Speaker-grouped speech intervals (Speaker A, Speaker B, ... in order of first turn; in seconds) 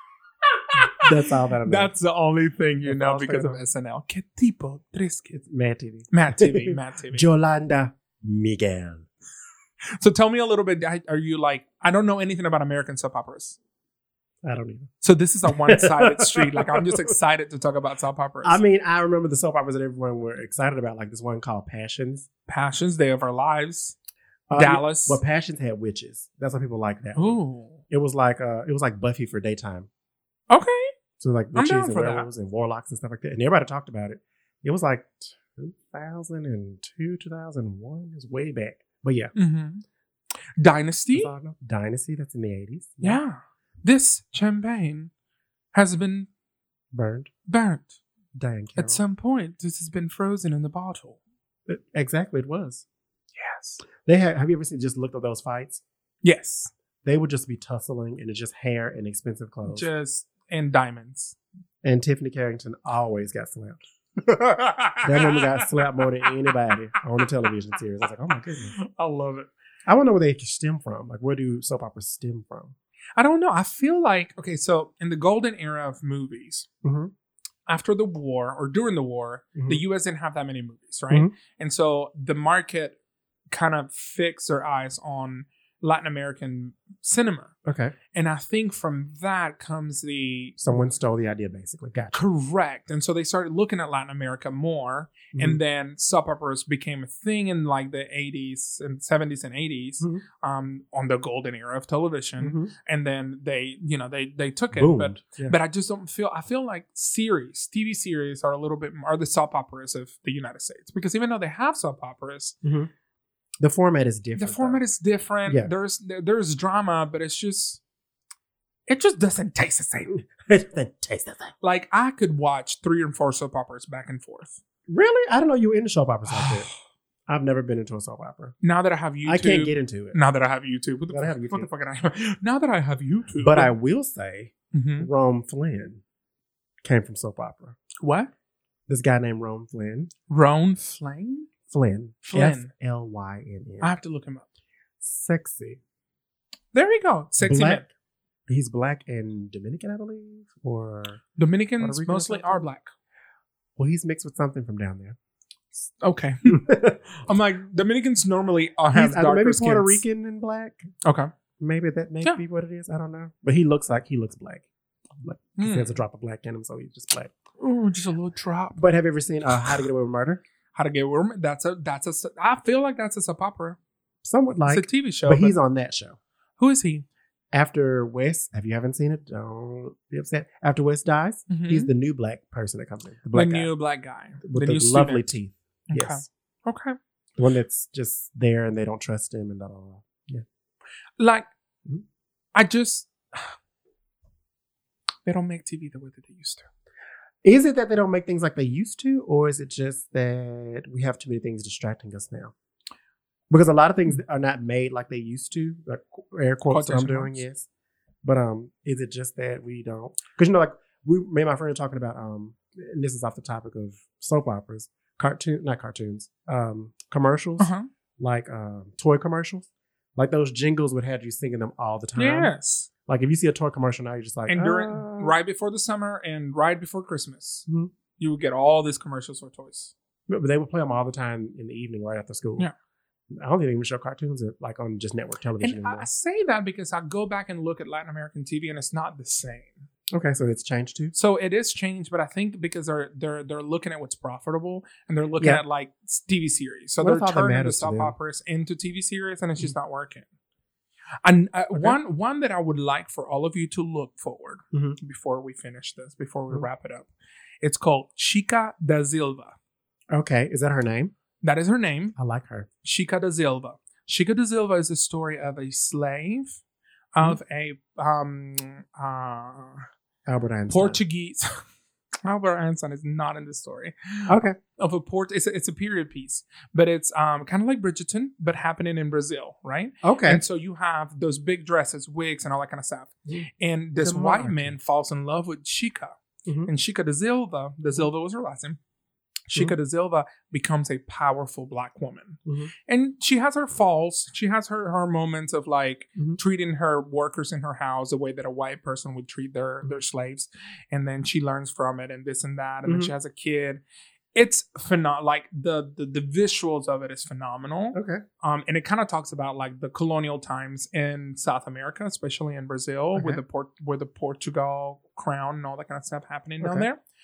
Speaker A: 0.7-5.4, 6.1-7.3, 10.0-13.6, 15.0-18.6, 22.5-23.9, 24.5-25.2, 27.1-27.8, 30.5-30.9, 31.6-32.3, 39.4-39.8, 40.6-41.3, 43.0-45.1, 45.7-46.3, 47.5-48.0, 48.8-51.2, 53.4-53.8, 56.2-56.7, 59.6-61.4, 64.3-66.5, 68.7-69.5, 73.2-76.7, 77.7-83.0, 83.5-87.5, 88.1-91.0, 92.1-112.6, 114.4-117.8, 118.9-120.2, 121.6-124.6, 126.3-126.7, 128.6-133.8, 134.7-135.1, 138.0-138.3, 140.3-141.5, 142.3-142.7, 143.8-144.5, 146.7-147.9, 151.4-152.9, 156.0-160.0, 161.0-161.3, 165.6-166.0, 167.6-168.8, 170.8-173.8, 174.7-175.6, 176.6-177.1, 181.5-181.9, 183.3-185.3, 185.9-187.0, 191.2-191.4, 192.6-193.5, 195.3-196.7, 206.7-207.4, 217.6-217.9, 222.2-222.9, 224.5-227.7, 228.2-229.9, 235.6-239.9, 241.1-250.3, 251.2-257.1, 257.6-259.6, 261.4-262.1, 262.8-266.6, 267.1-269.9, 270.7-271.5, 272.2-286.1, 286.6-288.8, 289.5-303.8, 304.4-317.0
Speaker B: 1.0-1.9, 2.9-3.6, 5.3-9.1, 14.4-14.9, 15.4-17.1, 18.4-22.3, 24.5-27.4, 27.9-29.9, 31.2-39.3, 41.1-43.2, 46.9-47.3, 48.4-49.0, 51.7-52.9, 54.0-55.8, 57.0-59.9, 61.8-63.8, 65.0-68.8, 69.9-72.8, 76.8-77.1, 79.6-79.8, 87.6-87.9, 90.6-92.2, 95.3-95.6, 102.4-102.7, 104.7-105.6, 112.6-112.9, 113.6-114.8, 120.1-121.5, 124.9-126.7, 127.3-128.6, 129.3-130.2, 131.1-131.7, 133.4-136.0, 136.8-137.8, 138.9-140.1, 141.7-143.9, 145.0-145.8, 147.4-147.9, 148.5-151.2, 151.8-152.7, 153.8-155.2, 156.4-157.0, 158.9-160.8, 161.6-167.3, 168.8-170.4, 174.2-176.2, 177.5-183.7, 184.4-186.2, 187.4-190.4, 197.4-202.5, 203.5-207.7, 208.2-222.5, 223.1-225.3, 230.3-232.7, 233.3-236.1, 240.1-241.1, 247.0-248.1, 254.7-255.0, 260.1-261.1, 262.2-262.7, 270.3-271.0, 274.3-274.6, 280.0-280.4, 284.0-284.8, 302.9-303.1, 307.9-308.2, 313.1-313.4, 316.6-316.9